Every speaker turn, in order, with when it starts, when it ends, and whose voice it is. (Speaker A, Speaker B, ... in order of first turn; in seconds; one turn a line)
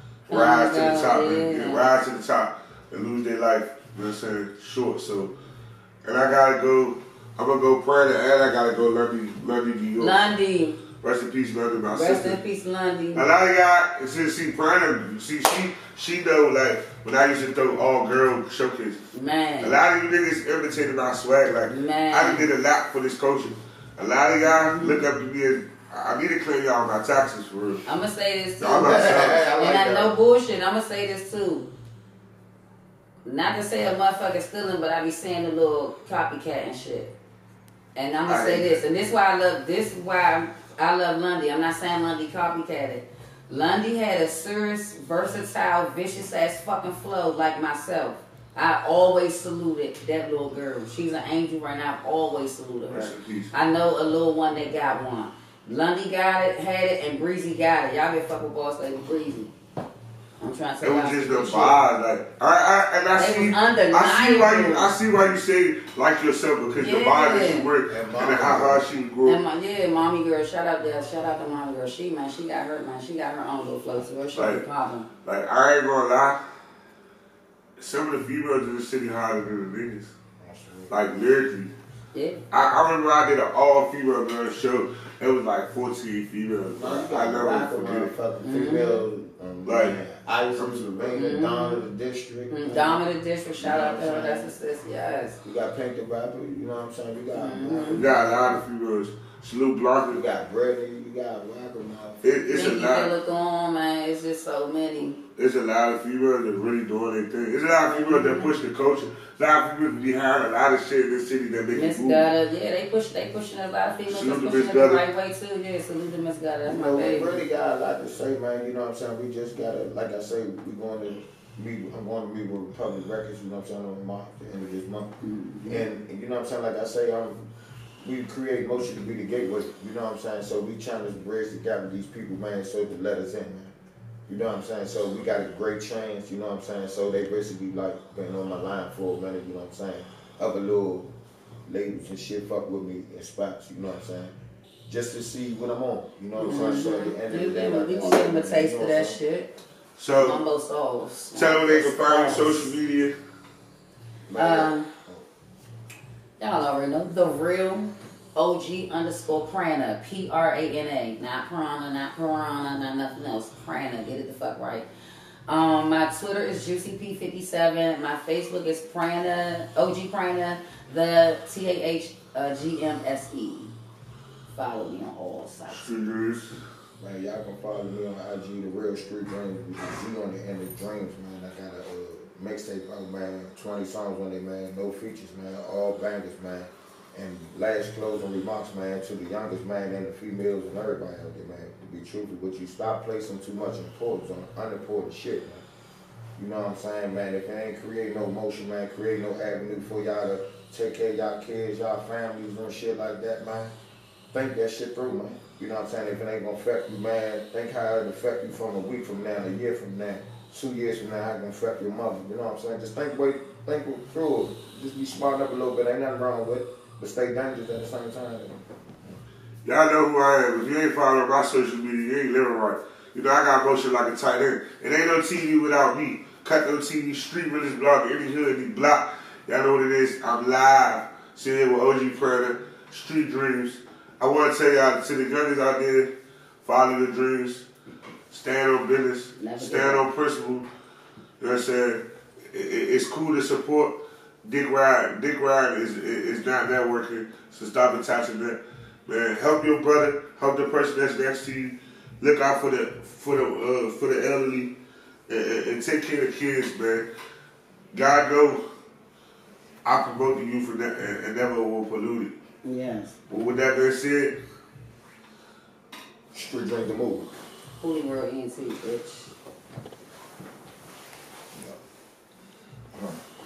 Speaker A: 0.3-5.3
Speaker B: 0.3-1.9
Speaker A: 6.0-10.3
Speaker B: 10.0-10.8
Speaker A: 11.0-12.4
Speaker B: 11.9-13.3
Speaker A: 13.2-27.8
Speaker B: 19.1-19.8
Speaker B: 21.7-22.5
Speaker B: 24.4-25.0
Speaker B: 27.9-31.7
Speaker A: 28.6-29.5
Speaker C: 28.8-30.1
Speaker B: 33.2-37.1
Speaker B: 38.0-59.5
Speaker A: 38.3-38.8
Speaker A: 52.9-53.5
Speaker B: 60.4-61.8
Speaker A: 60.8-69.4
Speaker B: 63.2-64.9
Speaker B: 66.8-67.7
Speaker C: 67.9-68.9
Speaker B: 69.2-75.1
Speaker A: 74.3-74.6
Speaker A: 75.2-76.4
Speaker A: 77.8-80.2
Speaker C: 80.4-81.0
Speaker A: 80.9-81.7
Speaker B: 82.1-82.4
Speaker A: 82.5-88.1
Speaker C: 86.7-93.0
Speaker B: 88.4-89.0
Speaker A: 89.7-90.0
Speaker A: 90.6-91.2
Speaker B: 91.1-91.8
Speaker B: 92.5-95.4
Speaker C: 93.6-94.5
Speaker C: 95.4-98.6
Speaker B: 97.3-98.0
Speaker A: 97.9-100.2
Speaker C: 100.1-102.2
Speaker A: 102.2-103.1
Speaker B: 102.5-105.2
Speaker A: 105.4-112.3
Speaker B: 107.9-108.6
Speaker B: 111.7-117.4
Speaker A: 114.1-115.0
Speaker C: 116.7-125.1
Speaker B: 125.2-125.9
Speaker C: 125.7-127.5
Speaker C: 128.0-133.8
Speaker C: 134.3-141.1
Speaker C: 141.7-144.3
Speaker C: 144.9-149.2
Speaker A: 146.4-146.8
Speaker B: 146.4-149.5
Speaker A: 150.0-150.4
Speaker B: 150.1-152.7
Speaker A: 151.3-153.1
Speaker C: 154.3-155.3
Speaker B: 154.4-154.9
Speaker B: 156.4-164.9
Speaker B: 165.5-173.7
Speaker B: 174.5-175.9
Speaker A: 175.7-176.6
Speaker C: 177.0-195.7
Speaker C: 196.4-203.7
Speaker C: 204.3-218.6
Speaker A: 219.6-236.1
Speaker A: 236.6-237.7
Speaker A: 238.3-240.7
Speaker B: 239.4-240.1
Speaker A: 241.4-254.7
Speaker A: 255.3-257.1
Speaker A: 257.9-258.6
Speaker A: 259.9-262.3
Speaker B: 262.6-263.1
Speaker A: 263.3-264.4
Speaker C: 266.3-267.3
Speaker B: 267.8-269.3
Speaker C: 271.5-271.8
Speaker C: 272.9-273.2